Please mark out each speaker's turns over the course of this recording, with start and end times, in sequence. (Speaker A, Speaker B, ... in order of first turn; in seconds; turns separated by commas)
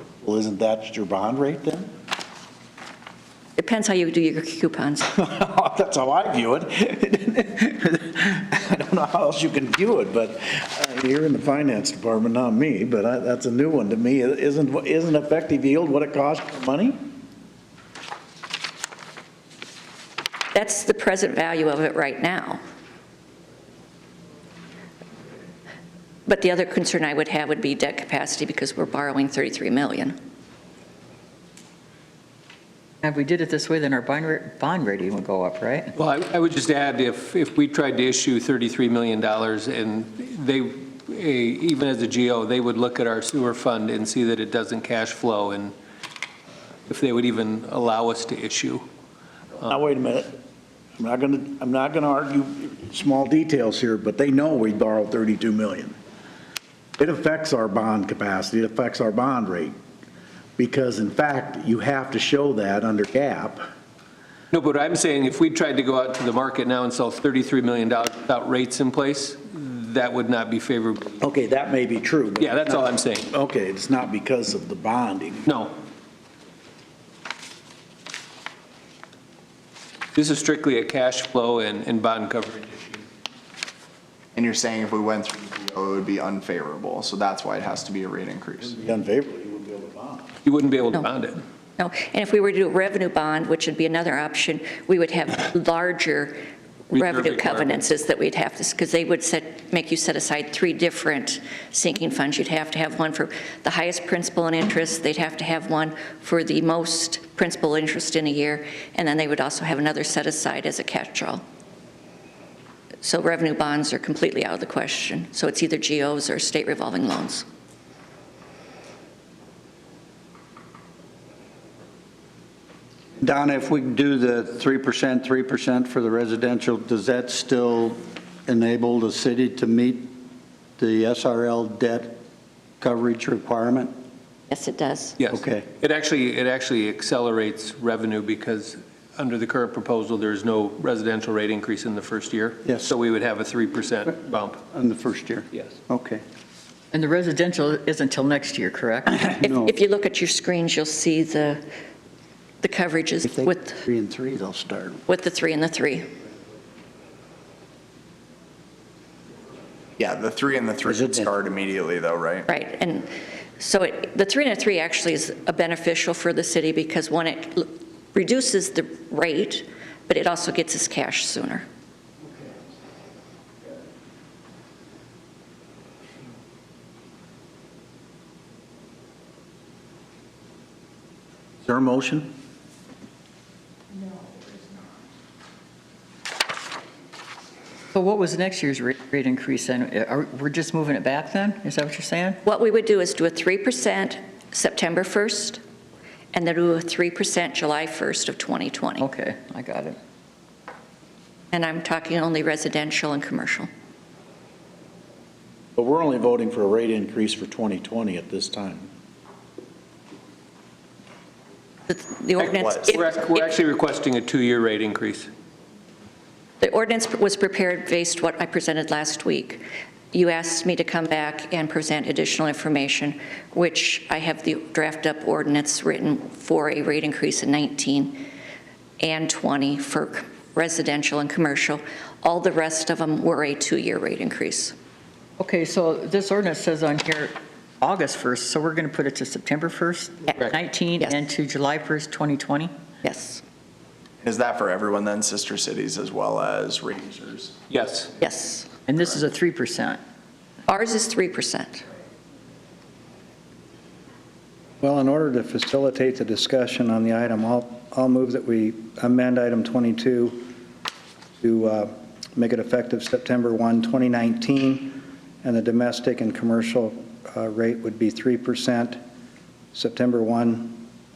Speaker A: 0.2-1.9, Speaker B: 3.6-5.1, Speaker A: 5.1-17.0, Speaker B: 20.5-22.6, Speaker B: 26.3-30.1, Speaker C: 33.0-35.9, Speaker D: 36.0-45.7, Speaker D: 46.9-48.8, Speaker A: 49.6-50.4, Speaker A: 51.0-56.0, Speaker A: 57.0-59.7, Speaker A: 60.6-63.6, Speaker D: 64.5-71.3, Speaker A: 71.2-75.5, Speaker D: 72.4-73.3, Speaker D: 75.5-75.7, Speaker D: 80.2-83.0, Speaker E: 84.3-88.8, Speaker A: 88.6-90.4, Speaker D: 90.5-91.4, Speaker B: 91.8-111.4, Speaker D: 96.9-97.7, Speaker B: 113.0-117.5, Speaker F: 123.2-130.2, Speaker F: 130.8-132.2, Speaker F: 132.8-134.0, Speaker B: 134.5-135.2, Speaker D: 135.2-144.6, Speaker F: 135.3-135.7, Speaker F: 142.7-142.9, Speaker F: 144.7-146.2, Speaker C: 146.9-149.2, Speaker F: 149.2-149.7, Speaker B: 149.4-151.6, Speaker B: 152.6-153.8, Speaker F: 153.3-155.0, Speaker B: 155.1-156.1, Speaker E: 160.0-162.5, Speaker F: 160.9-161.3, Speaker B: 162.5-171.7, Speaker A: 181.7-182.3, Speaker C: 187.9-192.4, Speaker B: 192.4-195.6, Speaker B: 196.3-199.1, Speaker C: 199.0-200.0, Speaker B: 201.5-203.7, Speaker A: 205.8-208.9, Speaker B: 211.9-213.4, Speaker D: 212.4-215.3, Speaker E: 212.6-212.9, Speaker B: 216.6-228.2, Speaker B: 229.0-234.8, Speaker C: 235.4-242.7, Speaker B: 243.0-243.4, Speaker E: 244.2-247.6, Speaker D: 247.7-248.2, Speaker B: 248.2-248.8, Speaker C: 248.9-250.0, Speaker B: 250.7-251.8, Speaker G: 254.8-260.5, Speaker G: 261.4-269.0, Speaker G: 269.7-270.9